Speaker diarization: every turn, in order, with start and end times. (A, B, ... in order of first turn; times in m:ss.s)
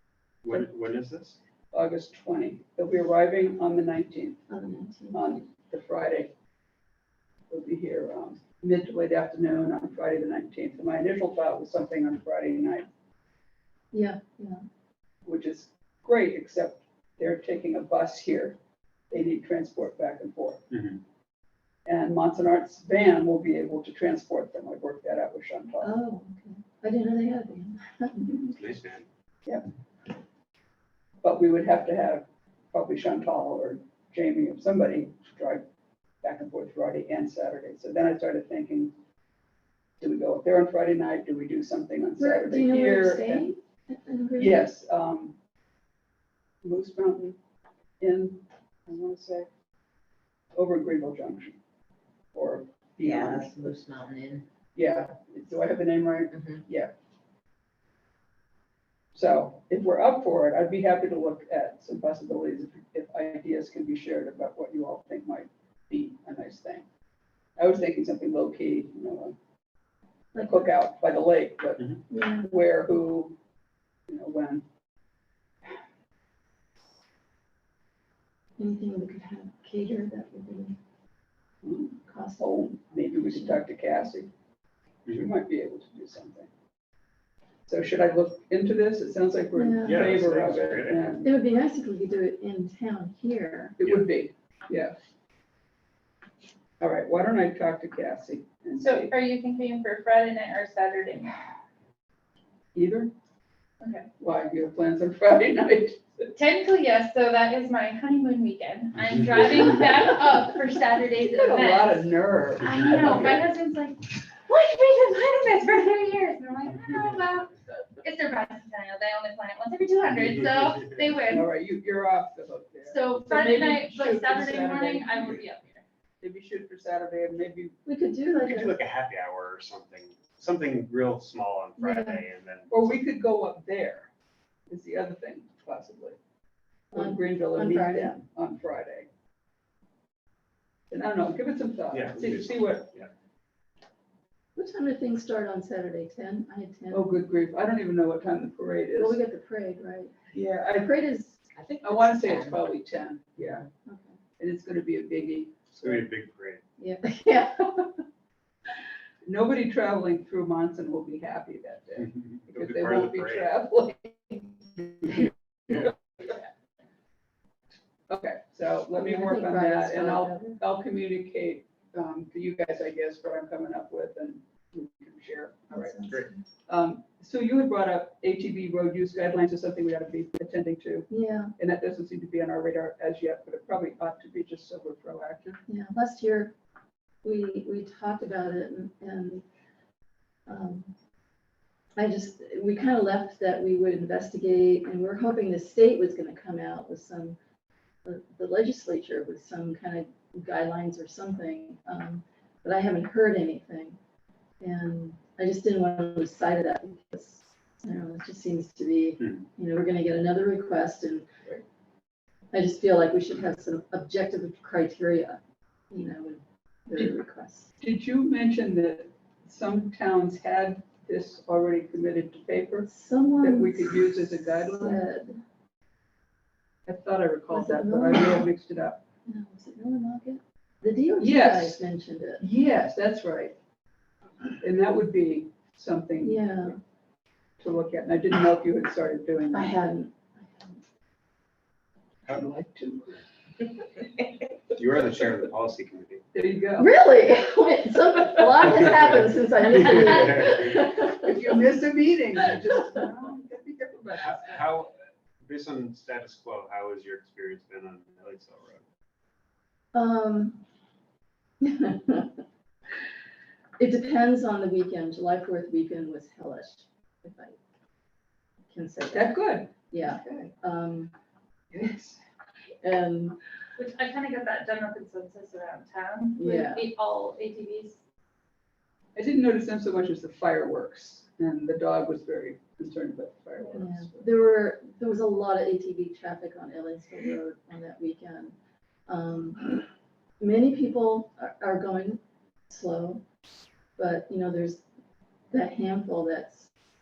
0:00.4-0:01.4 A
0:01.7-0:04.4 B
0:04.5-0:05.3 C
0:05.1-0:06.3 B
0:07.5-0:12.9 B
0:13.9-0:14.6 C
0:15.2-0:18.6 B
0:19.1-0:20.7 B
0:20.7-0:21.0 A
0:21.9-0:25.9 B
0:25.8-0:28.6 C
0:28.6-0:29.1 A
0:31.2-0:35.6 B
0:36.2-0:38.9 B
0:40.0-0:43.5 B
0:42.2-0:44.7 C
0:44.4-0:45.4 B
0:46.6-0:47.4 B
0:48.0-0:49.5 B
0:50.6-0:51.6 B
0:52.3-0:53.6 B
0:53.0-0:54.4 D
0:54.8-0:56.9 B
0:56.4-0:56.6 D
0:59.2-1:06.8 B
1:07.6-1:09.4 B
1:10.3-1:10.7 C
1:10.4-1:13.4 B
1:12.1-1:12.5 C
1:14.1-1:14.6 B
1:18.6-1:20.8 C
1:21.6-1:24.3 B
1:22.1-1:22.6 C
1:23.2-1:23.9 C
1:25.1-1:26.5 B
1:27.7-1:31.3 B
1:29.6-1:30.1 C
1:29.8-1:31.2 A
1:31.2-1:33.8 C
1:33.8-1:35.0 B
1:36.8-1:39.1 B
1:38.8-1:41.3 E
1:42.7-1:43.1 B
1:43.8-1:44.1 E
1:44.2-1:46.3 B
1:46.4-2:01.5 E
1:51.2-1:53.4 B
2:01.3-2:05.4 B
2:02.8-2:05.8 E
2:06.2-2:07.8 B
2:07.9-2:08.8 C
2:08.4-2:12.9 A
2:11.8-2:12.2 C
2:12.7-2:14.1 B
2:14.7-2:16.2 B
2:16.9-2:18.2 C
2:16.9-2:19.1 B
2:20.9-2:22.9 B
2:21.9-2:23.1 A
2:24.6-2:27.2 C
2:26.9-2:29.2 B
2:29.0-2:30.2 C
2:30.3-2:30.9 B
2:30.7-2:31.4 C
2:31.5-2:32.7 D
2:31.8-2:33.7 B
2:33.9-2:34.2 C
2:34.4-2:36.1 B
2:35.7-2:36.6 A
2:36.8-2:38.0 C
2:39.2-2:46.3 B
2:42.0-2:43.5 A
2:48.1-2:56.0 B
2:48.9-2:50.6 C
2:55.7-2:56.4 C
2:56.7-3:05.6 B
3:01.1-3:01.5 C
3:05.7-3:06.5 C
3:07.2-3:09.4 C
3:10.5-3:10.9 C
3:12.0-3:17.4 C
3:18.0-3:24.0 C
3:24.6-3:31.3 C
3:29.2-3:29.4 A
3:32.5-3:37.7 C
3:37.8-3:42.9 B
3:42.9-3:45.4 C
3:43.4-3:45.0 B
3:46.9-3:49.0 B
3:47.5-3:48.5 C
3:49.3-3:52.4 C
3:51.2-3:51.8 B
3:52.4-3:53.6 B
3:54.6-3:56.8 B
3:56.2-3:56.8 C
3:57.6-3:59.8 B
3:59.5-4:00.8 C
4:02.3-4:03.2 B
4:04.8-4:06.2 A
4:06.3-4:06.9 B
4:06.8-4:11.3 C
4:09.8-4:10.6 A
4:11.2-4:14.8 B
4:14.2-4:14.9 A
4:15.4-4:18.8 A
4:19.9-4:20.6 C
4:21.6-4:22.4 C
4:23.8-4:27.6 C
4:28.7-4:31.1 C
4:29.1-4:30.5 B
4:31.7-4:32.2 B
4:32.8-4:33.4 C
4:33.8-4:38.0 E
4:36.4-4:36.9 C
4:39.2-4:44.3 B
4:43.7-4:48.6 C
4:49.1-4:49.8 C
4:50.4-4:53.2 C
4:54.0-4:54.8 C
4:55.5-4:56.7 C